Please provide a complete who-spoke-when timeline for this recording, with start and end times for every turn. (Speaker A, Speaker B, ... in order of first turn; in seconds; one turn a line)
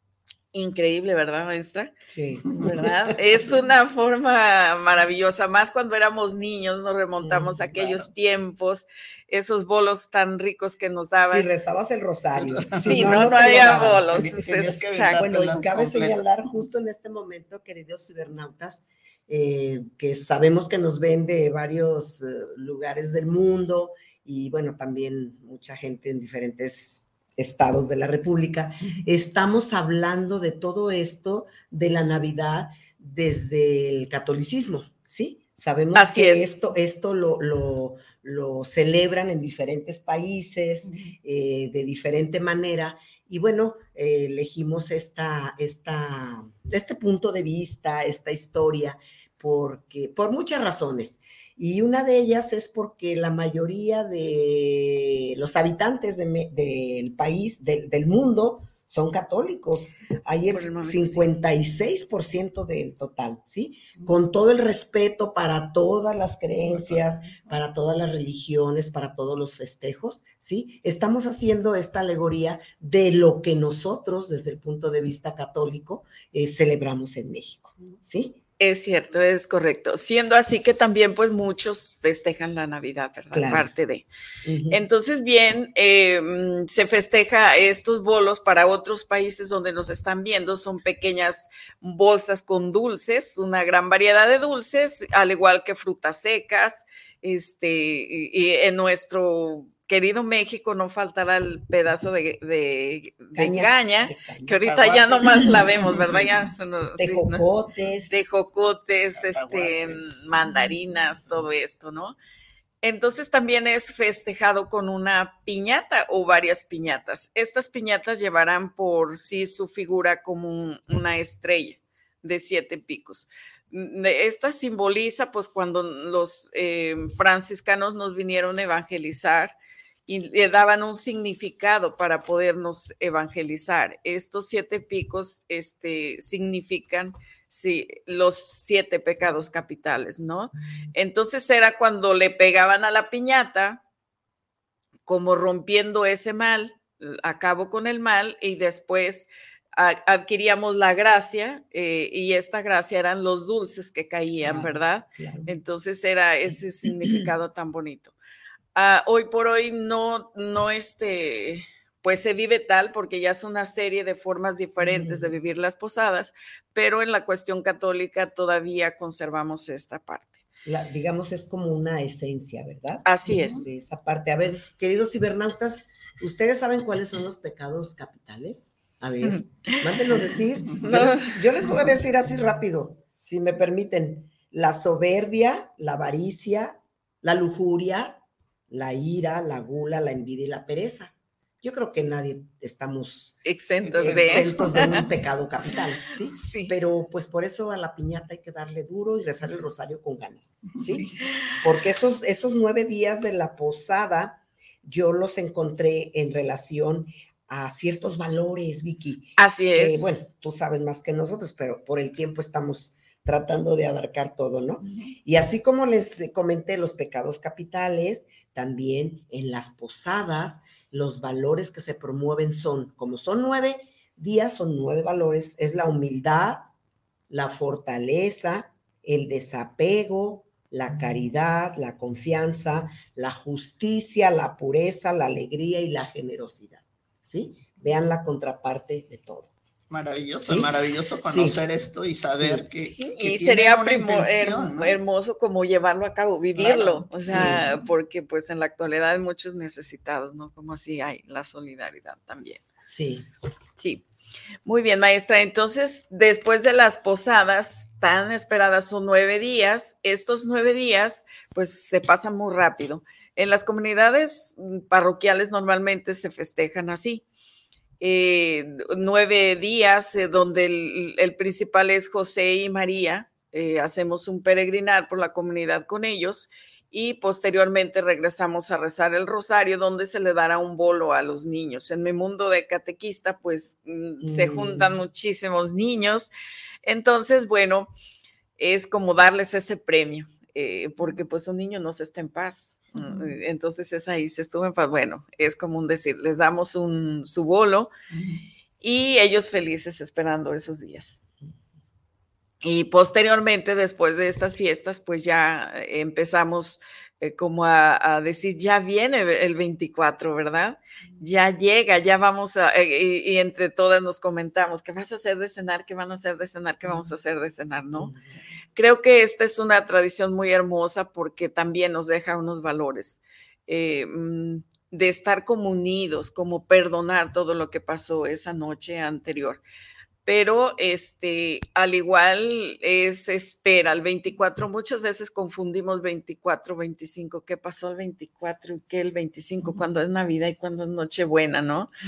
Speaker A: 0.5-1.9
Speaker B: 2.1-3.1
Speaker A: 2.6-11.5
Speaker B: 7.2-7.8
Speaker C: 7.8-8.1
Speaker B: 11.2-78.4
Speaker C: 12.3-16.6
Speaker A: 12.8-15.3
Speaker A: 36.0-36.5
Speaker C: 40.9-41.1
Speaker A: 60.5-61.3
Speaker C: 66.7-67.0
Speaker A: 78.6-84.1
Speaker B: 83.3-83.7
Speaker B: 84.5-84.8
Speaker A: 84.7-107.4
Speaker B: 103.3-105.7
Speaker C: 104.7-106.3
Speaker B: 107.0-108.2
Speaker A: 108.1-112.2
Speaker C: 109.2-110.3
Speaker A: 112.8-129.6
Speaker A: 130.1-143.8
Speaker A: 145.1-158.2
Speaker B: 154.4-155.5
Speaker A: 158.8-170.4
Speaker B: 164.8-165.3
Speaker B: 170.7-188.2
Speaker A: 173.1-173.6
Speaker A: 179.2-179.8
Speaker A: 180.8-181.4
Speaker B: 188.7-193.4
Speaker A: 193.4-195.0
Speaker C: 193.8-195.0
Speaker B: 194.0-201.1
Speaker A: 196.4-196.7
Speaker C: 200.7-201.1
Speaker B: 201.6-226.7
Speaker A: 209.4-210.1
Speaker B: 227.3-239.5
Speaker C: 239.9-245.0
Speaker B: 240.4-240.7
Speaker B: 241.2-241.6
Speaker B: 242.2-242.7
Speaker A: 242.8-252.6
Speaker B: 246.6-247.6
Speaker C: 247.3-247.6
Speaker B: 252.9-253.3
Speaker A: 253.8-254.0
Speaker A: 254.7-267.2
Speaker A: 268.0-286.3
Speaker B: 284.2-284.9
Speaker A: 286.9-287.9
Speaker A: 288.6-297.9
Speaker C: 298.1-298.4
Speaker A: 298.8-301.2
Speaker A: 302.6-318.1
Speaker B: 318.0-318.3
Speaker A: 318.8-329.6
Speaker A: 330.2-341.9